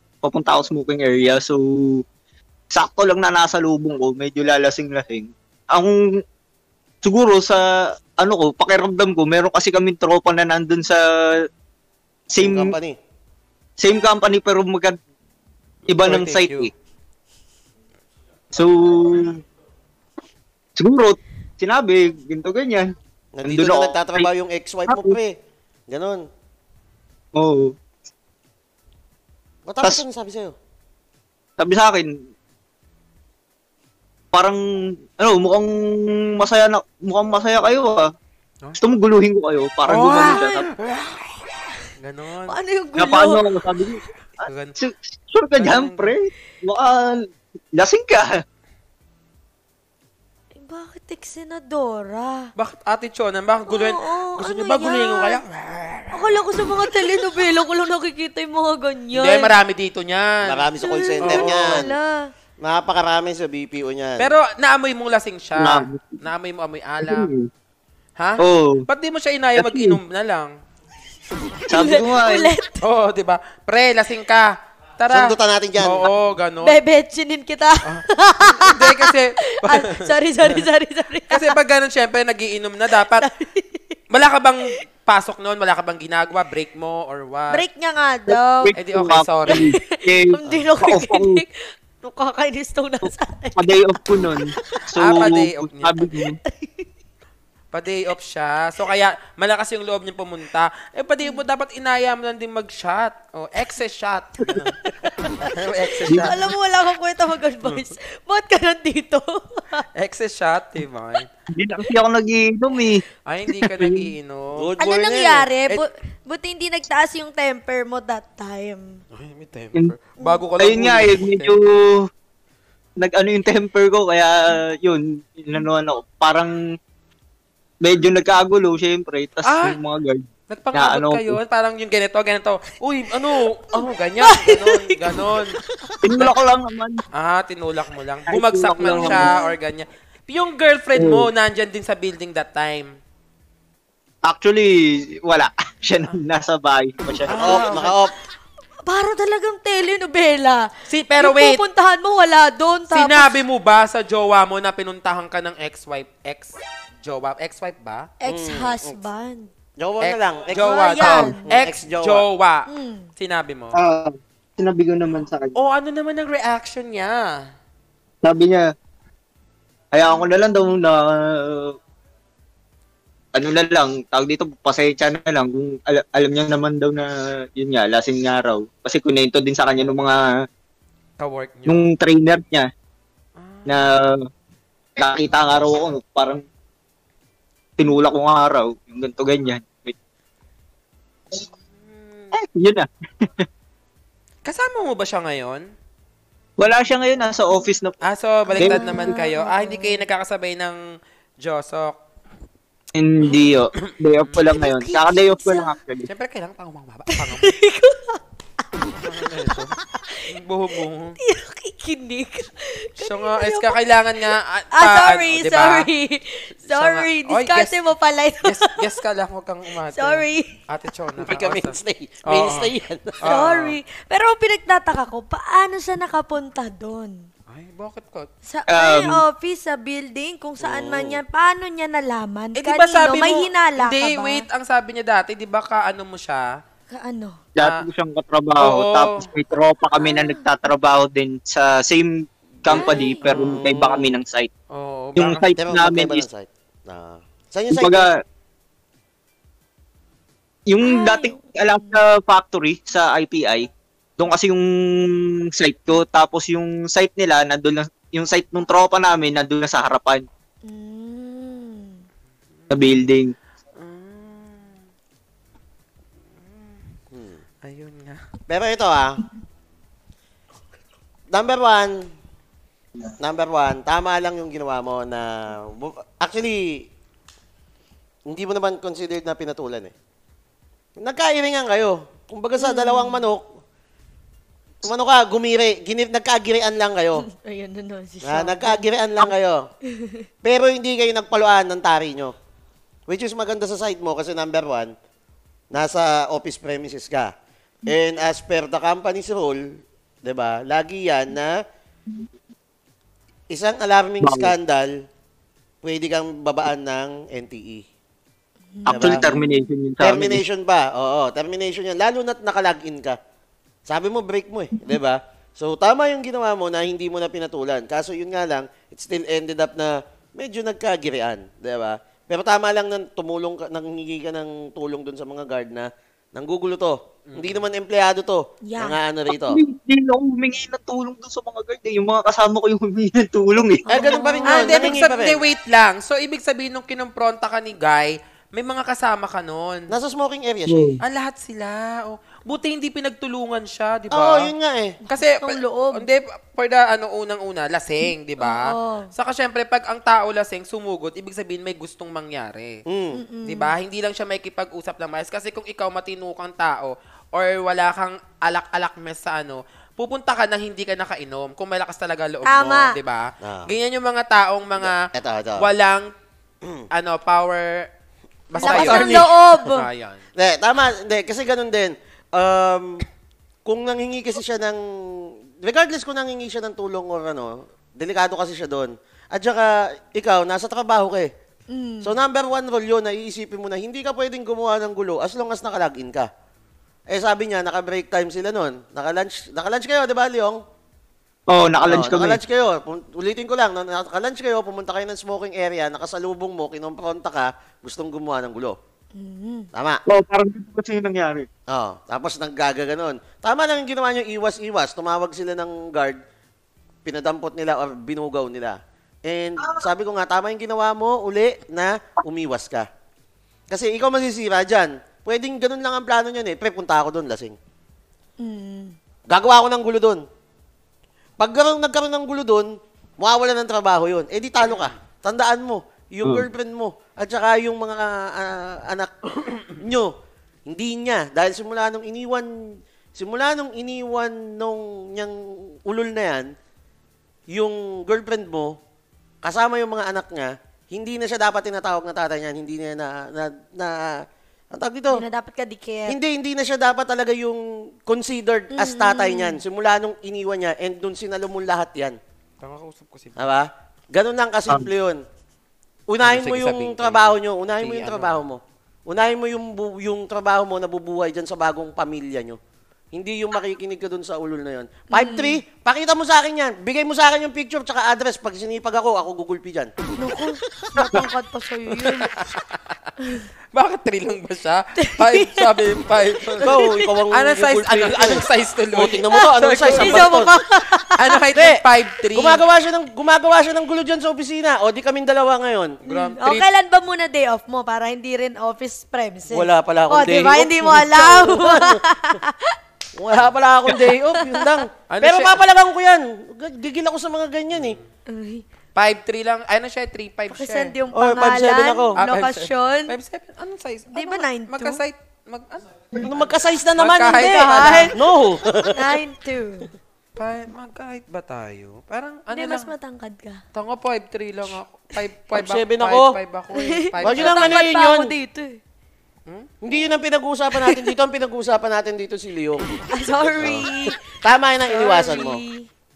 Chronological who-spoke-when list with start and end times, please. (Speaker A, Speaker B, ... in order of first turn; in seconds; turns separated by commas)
Speaker A: 0.2-2.0, Speaker A: 2.7-6.2, Speaker A: 7.0-11.5, Speaker A: 12.3-12.8, Speaker B: 12.4-13.0, Speaker A: 13.8-15.0, Speaker A: 15.9-16.7, Speaker C: 16.0-16.7, Speaker A: 18.5-19.4, Speaker A: 20.8-22.9, Speaker B: 23.4-25.4, Speaker A: 23.4-24.3, Speaker A: 24.9-25.2, Speaker B: 25.9-26.3, Speaker A: 27.4-27.8, Speaker B: 29.7-30.6, Speaker A: 31.6-32.1, Speaker A: 34.3-34.6, Speaker A: 35.2-38.1, Speaker A: 38.8-40.7, Speaker C: 39.9-41.2, Speaker D: 40.0-40.4, Speaker C: 42.0-42.6, Speaker D: 42.5-44.0, Speaker A: 43.0-44.0, Speaker C: 44.4-44.8, Speaker A: 44.8-48.4, Speaker C: 45.6-46.1, Speaker D: 50.5-52.5, Speaker C: 52.6-56.4, Speaker D: 53.7-55.4, Speaker D: 56.1-59.5, Speaker C: 59.1-60.7, Speaker B: 60.4-61.9, Speaker D: 60.8-62.3, Speaker C: 61.2-61.8, Speaker B: 62.6-64.3, Speaker C: 64.2-67.3, Speaker A: 65.6-66.2, Speaker A: 67.0-67.5, Speaker C: 68.2-70.5, Speaker A: 68.4-68.8, Speaker A: 69.6-70.0, Speaker A: 71.7-72.5, Speaker D: 71.7-72.8, Speaker C: 72.8-76.8, Speaker B: 75.1-76.1, Speaker D: 76.6-81.5, Speaker C: 77.8-80.6, Speaker C: 81.3-83.3, Speaker D: 83.0-84.0, Speaker C: 84.1-87.6, Speaker D: 87.5-88.7, Speaker A: 88.3-91.4, Speaker C: 88.8-89.8, Speaker D: 89.5-94.1, Speaker B: 90.5-90.7, Speaker A: 93.0-96.4, Speaker C: 95.0-96.2, Speaker D: 96.5-96.9, Speaker C: 97.7-104.8, Speaker D: 104.5-105.5, Speaker C: 105.5-106.5, Speaker D: 106.1-109.8, Speaker C: 107.6-107.9, Speaker C: 110.0-111.3, Speaker A: 111.5-114.1, Speaker C: 113.3-114.7, Speaker B: 114.6-115.5, Speaker D: 114.8-119.0, Speaker C: 119.1-121.5, Speaker A: 120.6-122.1, Speaker A: 123.0-126.6, Speaker A: 127.8-131.4, Speaker C: 129.4-129.8, Speaker C: 130.5-136.3, Speaker D: 134.2-135.0, Speaker A: 136.0-137.0, Speaker C: 137.1-142.9, Speaker A: 138.3-139.3, Speaker D: 138.8-139.6, Speaker A: 141.0-141.3, Speaker A: 144.2-147.6, Speaker C: 147.3-148.0, Speaker B: 147.4-148.1, Speaker D: 148.8-153.4, Speaker C: 150.9-151.6, Speaker C: 152.9-158.1, Speaker D: 158.2-159.5, Speaker B: 158.3-159.0, Speaker B: 159.8-160.9, Speaker C: 160.0-163.8, Speaker D: 160.6-161.5, Speaker A: 161.0-161.3, Speaker B: 161.4-162.2, Speaker D: 162.7-163.1, Speaker A: 163.8-165.6, Speaker C: 165.6-167.5, Speaker A: 168.2-168.7, Speaker A: 169.9-171.8, Speaker A: 173.3-180.4, Speaker C: 181.2-181.9, Speaker A: 181.7-182.7, Speaker C: 183.4-183.9, Speaker A: 183.7-184.2, Speaker A: 185.0-186.4, Speaker A: 187.8-189.9, Speaker C: 191.6-192.4, Speaker A: 192.3-193.4, Speaker C: 194.4-195.7, Speaker A: 196.6-198.0, Speaker C: 198.0-200.8, Speaker D: 198.5-200.1, Speaker A: 198.6-198.8, Speaker C: 201.4-202.0, Speaker A: 202.9-206.1, Speaker D: 203.2-203.6, Speaker C: 203.8-204.6, Speaker D: 204.5-205.7, Speaker C: 206.1-207.6, Speaker D: 207.1-208.2, Speaker C: 208.9-209.7, Speaker C: 210.3-211.2, Speaker D: 211.2-213.8, Speaker C: 213.0-215.9, Speaker D: 214.8-218.9, Speaker C: 216.6-217.9, Speaker C: 218.4-223.8, Speaker D: 219.9-220.5, Speaker B: 221.2-223.4, Speaker D: 223.2-227.3, Speaker C: 227.5-228.3, Speaker D: 228.4-234.4, Speaker A: 228.7-229.2, Speaker B: 230.6-231.2, Speaker C: 232.6-236.6, Speaker D: 236.9-237.4, Speaker A: 237.6-244.5, Speaker C: 237.6-237.8, Speaker C: 238.6-239.3, Speaker D: 240.0-240.4, Speaker D: 242.7-243.2, Speaker B: 242.8-244.2, Speaker C: 243.3-243.6, Speaker C: 244.7-245.5, Speaker A: 245.2-246.3, Speaker B: 245.6-248.1, Speaker A: 247.7-248.2, Speaker A: 250.7-260.2, Speaker D: 250.8-252.0, Speaker D: 260.6-262.1, Speaker C: 262.6-262.9, Speaker A: 262.7-263.3, Speaker C: 263.8-264.8, Speaker C: 266.4-266.9, Speaker B: 267.1-267.4, Speaker C: 267.6-268.2, Speaker B: 268.5-269.2, Speaker B: 271.3-272.1, Speaker B: 273.2-276.9, Speaker B: 278.3-279.9, Speaker B: 281.0-283.6, Speaker D: 282.6-283.2, Speaker B: 284.8-287.3, Speaker D: 287.2-289.2, Speaker B: 288.2-289.6, Speaker D: 289.9-290.3, Speaker B: 290.4-292.3, Speaker B: 293.1-294.9, Speaker B: 295.7-297.3, Speaker B: 297.9-301.6, Speaker B: 303.5-305.0, Speaker A: 304.2-304.5, Speaker B: 305.8-307.8, Speaker D: 308.7-309.7, Speaker A: 308.9-310.4, Speaker B: 308.9-309.2, Speaker B: 310.0-313.2, Speaker B: 313.9-329.6, Speaker C: 327.3-327.7, Speaker D: 328.6-329.0, Speaker A: 329.3-333.9, Speaker D: 333.9-335.0, Speaker B: 333.9-335.4, Speaker C: 334.4-339.9, Speaker B: 339.9-340.9, Speaker A: 340.7-341.0, Speaker C: 341.0-344.5, Speaker B: 344.1-345.0, Speaker C: 345.1-352.8, Speaker D: 345.1-346.1, Speaker D: 348.4-349.1, Speaker B: 352.9-353.2, Speaker D: 353.1-353.8, Speaker C: 353.5-365.1, Speaker D: 362.4-363.0, Speaker B: 363.4-363.7, Speaker B: 364.8-365.7, Speaker C: 365.6-366.1, Speaker B: 366.6-366.9, Speaker C: 366.9-367.9, Speaker C: 368.5-370.2, Speaker B: 368.5-369.4, Speaker D: 368.6-369.9, Speaker B: 370.4-373.1, Speaker B: 373.7-381.3, Speaker D: 381.7-382.1, Speaker B: 382.0-386.3, Speaker B: 387.1-390.6, Speaker A: 391.5-392.4, Speaker B: 391.8-398.8, Speaker D: 399.1-399.7, Speaker B: 399.7-400.0, Speaker A: 400.1-401.5, Speaker B: 401.7-406.2, Speaker B: 407.1-412.9, Speaker A: 409.6-409.9, Speaker B: 413.7-417.6, Speaker D: 418.4-419.0, Speaker B: 419.3-420.2, Speaker B: 421.4-429.1, Speaker C: 424.6-425.0, Speaker C: 429.5-429.8, Speaker B: 429.8-430.1, Speaker B: 430.7-436.5, Speaker B: 437.5-438.8, Speaker B: 439.4-445.2, Speaker D: 445.1-446.2, Speaker B: 446.1-452.2, Speaker D: 448.7-449.6, Speaker C: 452.6-453.5, Speaker B: 453.4-455.2, Speaker B: 456.1-462.6, Speaker C: 456.2-458.4, Speaker B: 463.1-469.9, Speaker D: 465.1-465.6, Speaker D: 470.2-472.3, Speaker C: 472.0-472.8, Speaker D: 473.2-473.5, Speaker C: 473.7-480.4, Speaker D: 475.0-475.8, Speaker B: 476.5-480.6, Speaker D: 476.6-477.1, Speaker D: 479.4-481.4, Speaker C: 481.1-482.6, Speaker B: 481.5-481.8, Speaker B: 482.4-486.0, Speaker D: 486.0-492.8, Speaker C: 486.1-486.6, Speaker B: 489.5-492.0, Speaker B: 493.1-498.0, Speaker D: 493.9-494.9, Speaker C: 495.1-495.6, Speaker C: 497.7-498.1, Speaker D: 498.3-498.6, Speaker C: 498.9-501.0, Speaker D: 500.5-503.1, Speaker B: 501.1-502.2, Speaker C: 502.2-508.2, Speaker D: 504.1-505.0, Speaker B: 506.2-509.2, Speaker D: 507.4-508.2, Speaker D: 508.8-509.9, Speaker C: 510.4-512.9, Speaker D: 512.5-513.6, Speaker C: 513.7-517.9, Speaker B: 515.5-516.4, Speaker D: 516.7-518.8, Speaker B: 517.2-518.3, Speaker B: 519.8-522.9, Speaker D: 520.7-521.1, Speaker D: 523.1-525.9, Speaker C: 523.4-523.8, Speaker B: 523.5-525.6